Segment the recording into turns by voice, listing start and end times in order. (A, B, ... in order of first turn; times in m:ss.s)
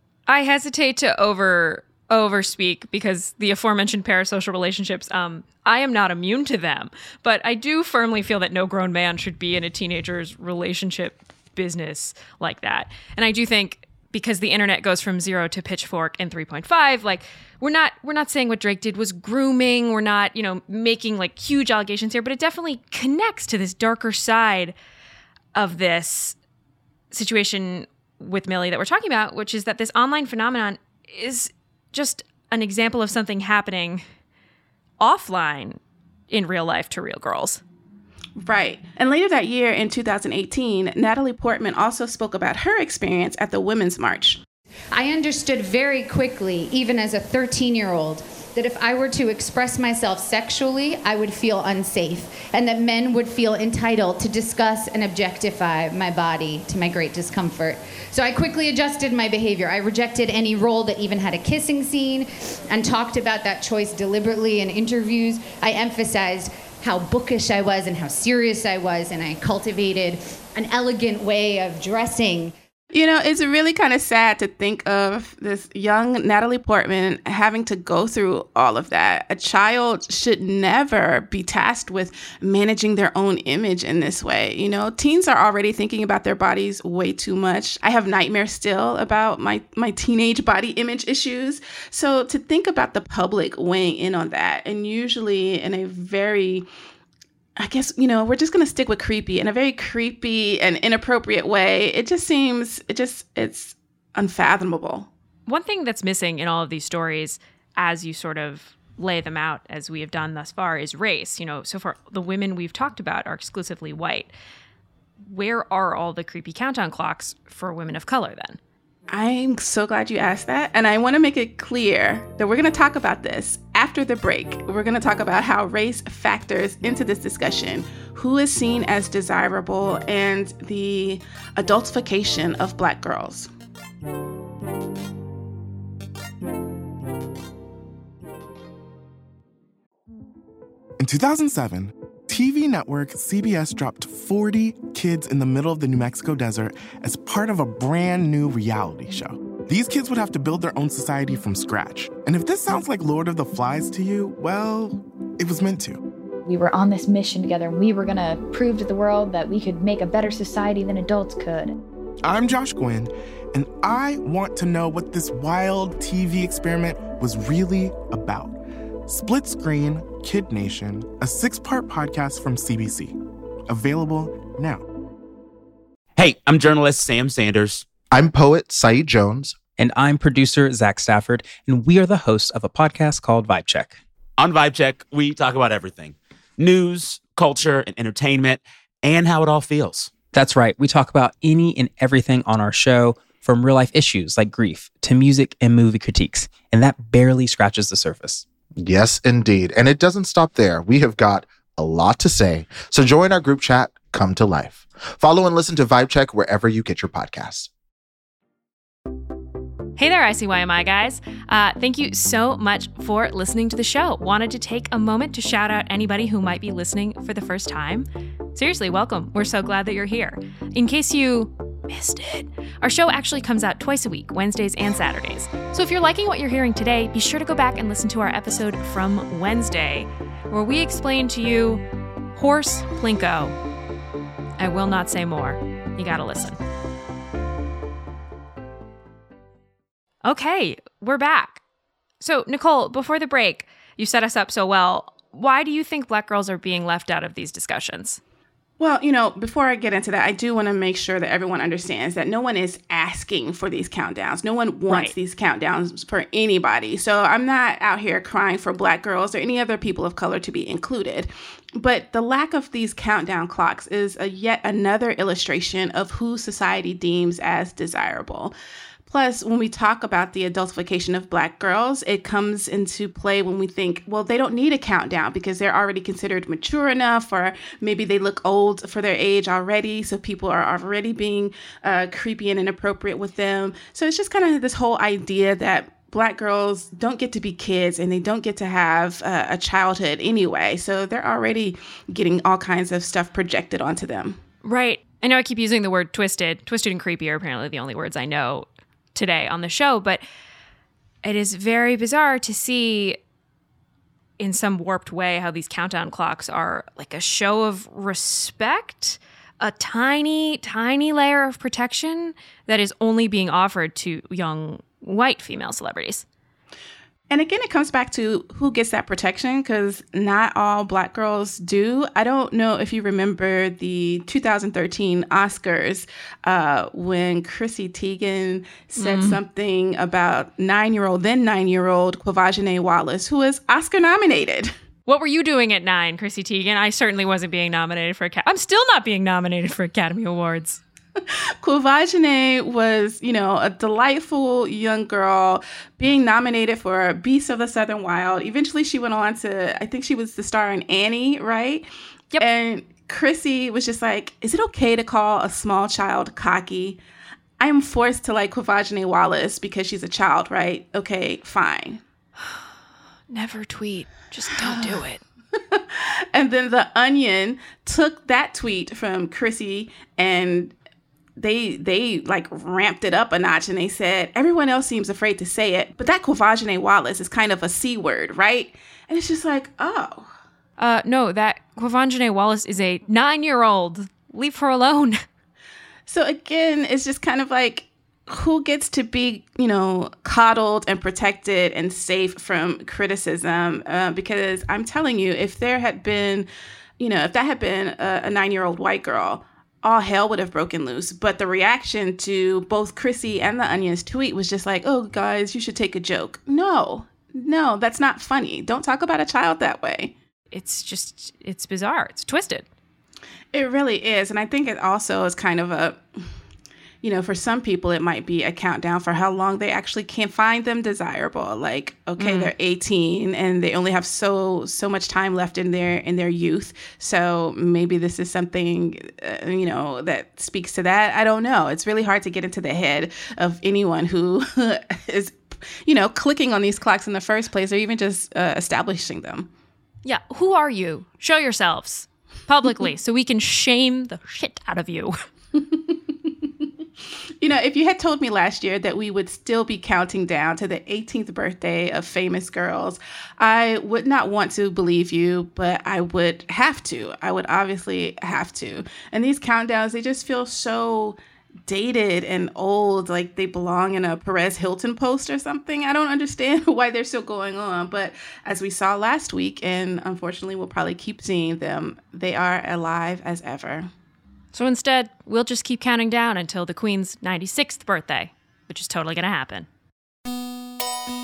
0:00.3-0:24.7 A
0:25.5-0:26.4 A
0:27.1-0:34.0 A
0:35.0-0:35.8 A
0:36.3-0:37.6 A
0:38.4-0:44.4 B
0:44.9-1:12.5 C
1:12.9-1:36.6 B
1:37.6-1:45.1 B
1:45.4-1:54.3 A
1:55.2-1:58.6 A
1:59.1-2:13.5 B
2:21.0-2:36.0 D
2:36.4-2:41.8 E
2:42.2-2:53.2 D
2:53.7-2:54.8 D
2:56.2-2:57.9 F
2:58.1-2:59.6 G
2:59.8-3:04.0 H
3:04.4-3:10.1 F
3:10.3-3:18.5 H
3:18.8-3:27.7 G
3:30.0-3:51.8 A
3:52.3-3:53.6 A
3:54.6-3:56.6 A
4:00.2-4:01.6 A
4:02.2-4:08.2 A
4:08.8-4:28.5 B
4:14.9-4:15.1 A
4:29.1-4:54.4 B
4:54.6-5:00.2 A
5:01.2-5:03.2 A
5:04.4-5:16.2 A
5:17.3-5:34.7 B
5:29.0-5:29.4 A
5:35.0-5:40.8 A
5:41.6-5:51.9 B
5:52.4-5:57.0 B
5:57.6-6:02.0 B
6:02.4-6:02.7 A
6:03.3-6:05.2 A
6:04.6-6:05.0 B
6:05.6-6:10.7 B
6:11.4-6:20.3 B
6:20.8-6:25.2 A
6:26.1-6:36.5 B
6:37.0-6:50.1 B
6:50.5-6:52.6 A
6:53.5-6:56.0 B
6:57.0-7:19.5 B
7:02.2-7:02.5 A
7:20.0-7:25.2 A
7:27.4-7:53.9 B
7:54.5-7:59.7 A